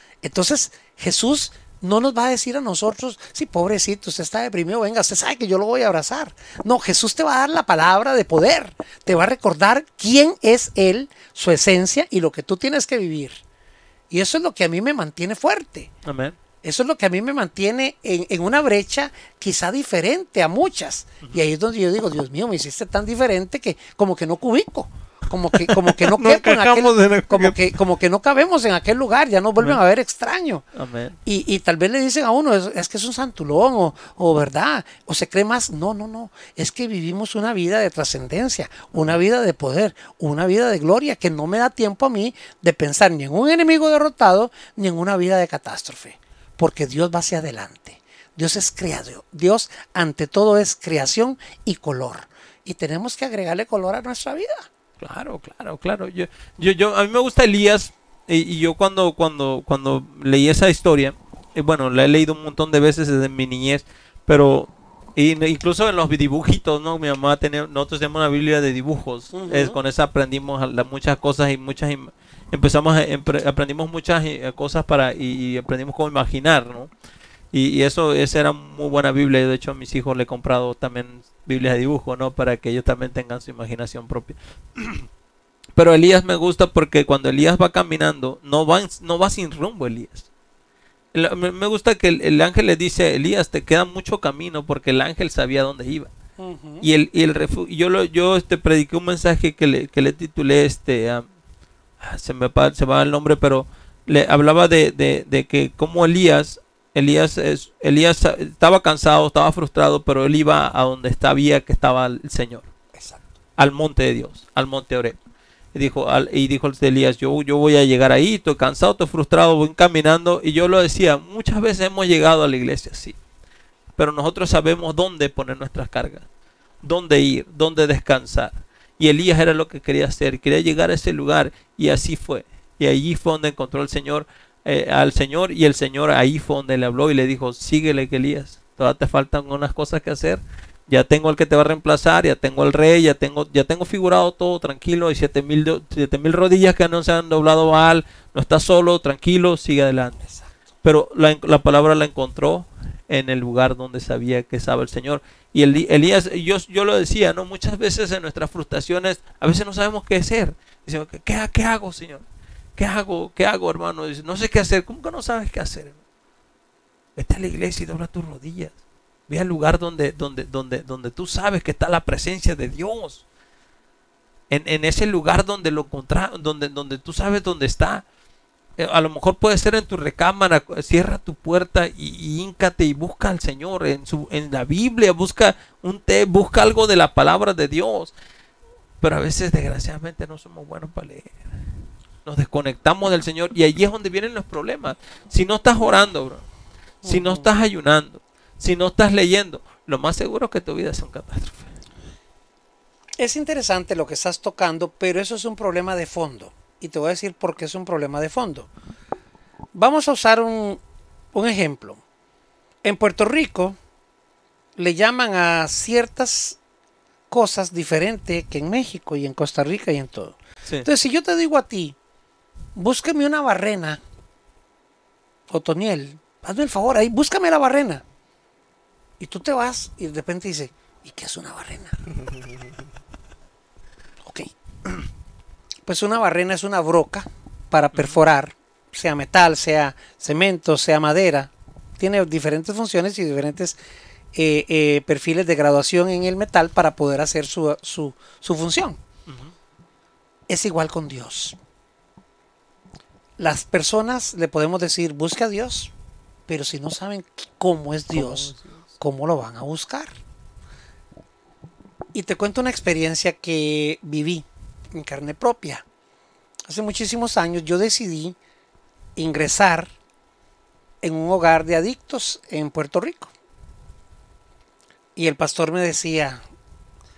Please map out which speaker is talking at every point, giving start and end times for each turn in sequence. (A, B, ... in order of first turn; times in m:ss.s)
0:00.2-0:13.4 A
0:14.1-0:15.9 A
0:16.0-0:16.4 B
0:16.6-0:30.6 A
0:25.5-0:27.6 B
0:30.7-0:31.2 B
0:31.2-0:54.7 A
0:55.0-1:16.9 B
1:09.3-1:09.8 A
1:17.5-1:25.1 B
1:25.8-1:30.3 B
1:31.1-1:36.1 B
1:36.4-1:36.8 A
1:36.8-1:41.3 B
1:42.0-1:52.7 B
1:52.9-1:53.2 A
1:53.6-1:55.2 B
1:55.7-2:03.2 B
2:04.0-2:06.3 B
2:06.8-2:30.2 B
2:30.8-2:42.2 B
2:42.8-2:46.0 B
2:47.2-2:48.8 B
2:49.3-2:53.2 B
2:54.5-2:58.0 B
2:58.8-3:08.1 B
3:09.0-3:11.5 B
3:12.2-3:16.4 B
3:17.0-3:17.4 A
3:17.0-3:21.7 B
3:23.2-3:28.7 A
3:29.7-3:30.8 A
3:31.3-3:32.0 A
3:32.8-3:33.8 A
3:34.8-3:36.6 A
3:37.3-3:41.9 A
3:42.7-3:44.0 A
3:45.5-3:48.0 A
3:49.2-3:52.1 A
3:54.2-3:55.0 A
3:55.8-4:03.8 A
4:04.3-4:09.0 A
4:09.3-4:09.5 B
4:10.5-4:11.6 A
4:13.4-4:15.9 A
4:16.5-4:20.1 A
4:18.1-4:18.8 B
4:22.1-4:25.8 A
4:26.7-4:28.4 A
4:29.2-4:29.9 A
4:31.0-4:33.3 A
4:35.2-4:36.4 A